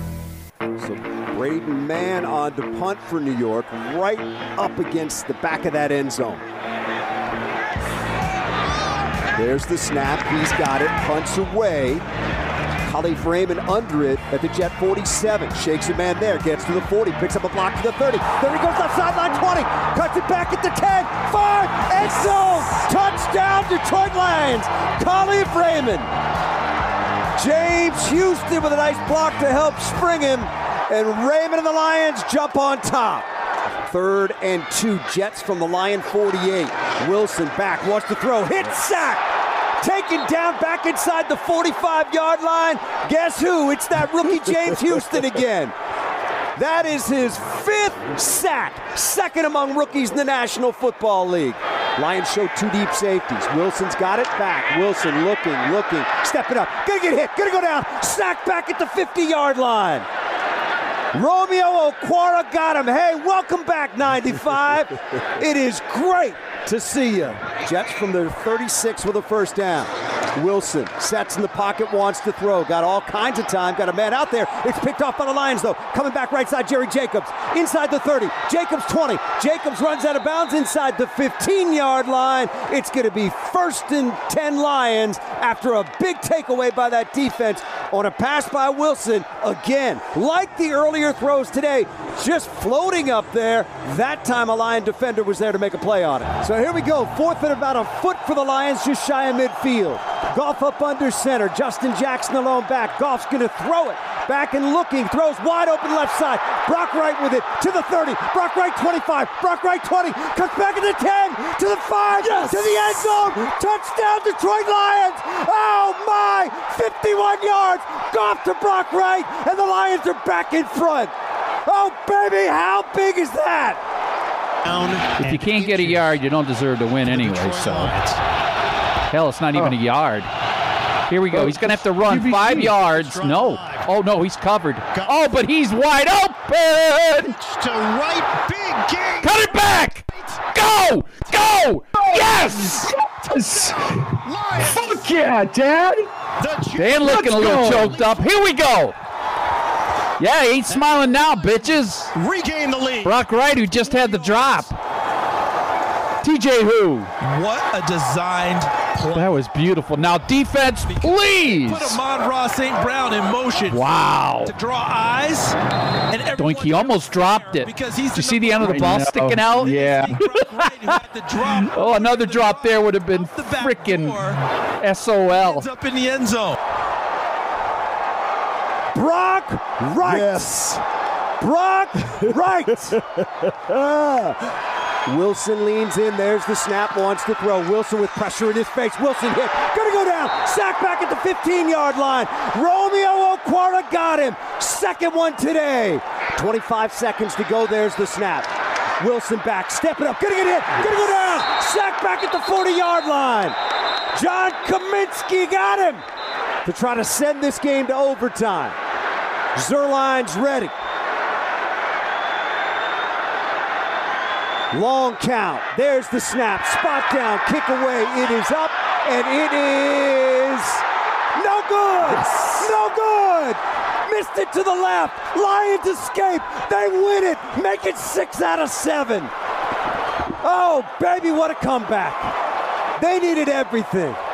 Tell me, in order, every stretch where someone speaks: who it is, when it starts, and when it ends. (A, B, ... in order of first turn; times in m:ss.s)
0:00.8-0:06.5 A
0:09.4-0:12.0 A
0:12.8-0:26.1 A
0:27.4-0:33.3 A
0:33.8-0:45.7 A
0:46.6-1:00.1 A
1:01.1-2:01.1 A
1:52.2-1:53.2 B
2:01.7-2:03.8 A
2:04.7-2:05.2 C
2:04.7-2:06.1 B
2:05.2-2:08.2 D
2:07.1-2:08.0 B
2:09.1-2:10.3 D
2:11.1-2:17.3 D
2:11.3-2:12.8 E
2:12.8-2:13.9 B
2:14.9-2:15.2 B
2:17.2-2:19.6 B
2:19.2-2:22.8 D
2:22.0-2:26.1 E
2:23.3-2:25.1 B
2:26.4-2:28.4 B
2:26.8-2:29.0 D
2:27.0-2:28.0 E
2:30.2-2:32.1 D
2:32.2-2:33.1 C
2:33.0-2:34.8 D
2:33.8-2:34.5 B
2:36.2-2:37.1 D
2:37.2-2:39.2 C
2:39.1-2:42.0 D
2:40.9-2:43.9 C
2:43.7-2:44.5 D
2:44.5-2:45.6 C
2:46.1-2:54.4 C
2:46.4-2:51.0 D
2:48.6-2:50.2 E
2:51.6-2:54.2 D
2:54.8-2:55.7 D
2:55.3-2:56.6 C
2:58.9-3:00.8 A
3:01.4-3:04.5 A
3:05.1-3:23.6 A
3:24.1-3:26.0 A
3:26.6-3:28.8 A
3:29.6-3:30.7 A
3:34.7-3:40.8 A
3:41.4-3:49.3 A
3:50.4-3:52.4 A
3:53.0-3:54.2 A